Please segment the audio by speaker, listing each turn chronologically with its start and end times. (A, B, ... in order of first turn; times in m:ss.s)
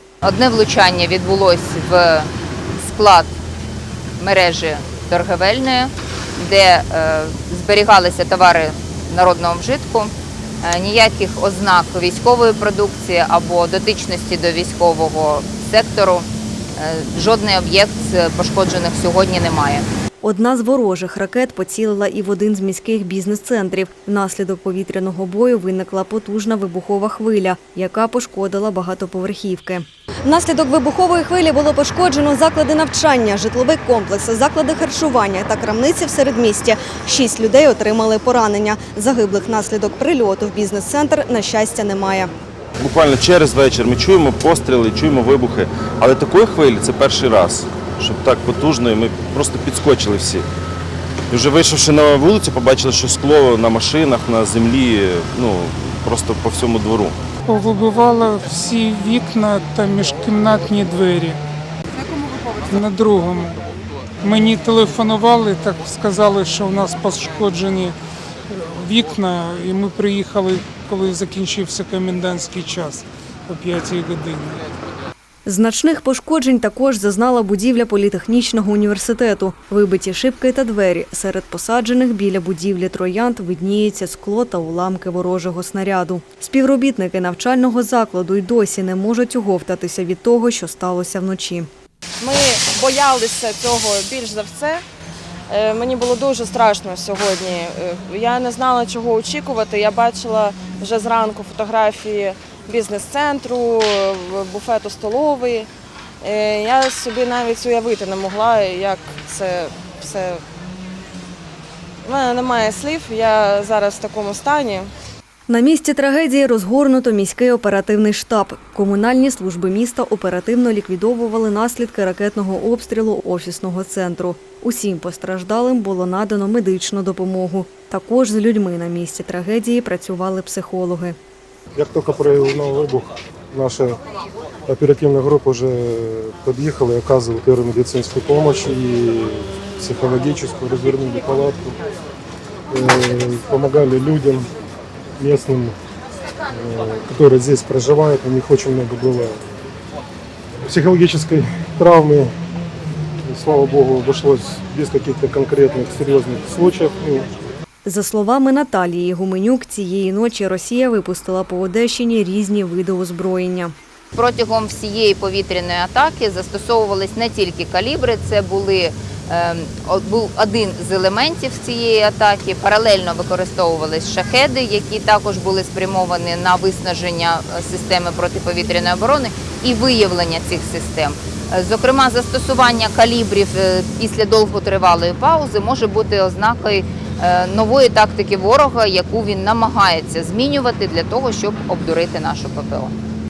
0:00.2-0:02.3 A
0:02.8-0:03.3 A
0:04.2-0:19.8 A
0:20.2-0:42.3 B
0:42.8-0:50.5 C
0:51.3-0:57.2 C
0:57.4-1:01.4 D
1:02.0-1:03.6 D
1:04.2-1:08.0 D
1:08.5-1:14.6 D
1:15.4-1:31.7 B
1:32.2-1:34.8 E
1:35.5-1:45.7 E
1:46.2-1:50.4 E
1:52.0-1:54.9 E
1:55.5-2:11.2 B
2:11.8-2:14.0 F
2:14.7-2:21.8 F
2:22.7-2:24.5 F
2:25.2-2:25.8 F
2:26.5-2:29.4 F
2:30.6-2:32.3 F
2:33.2-2:37.3 F
2:37.8-2:43.7 B
2:44.1-3:12.9 A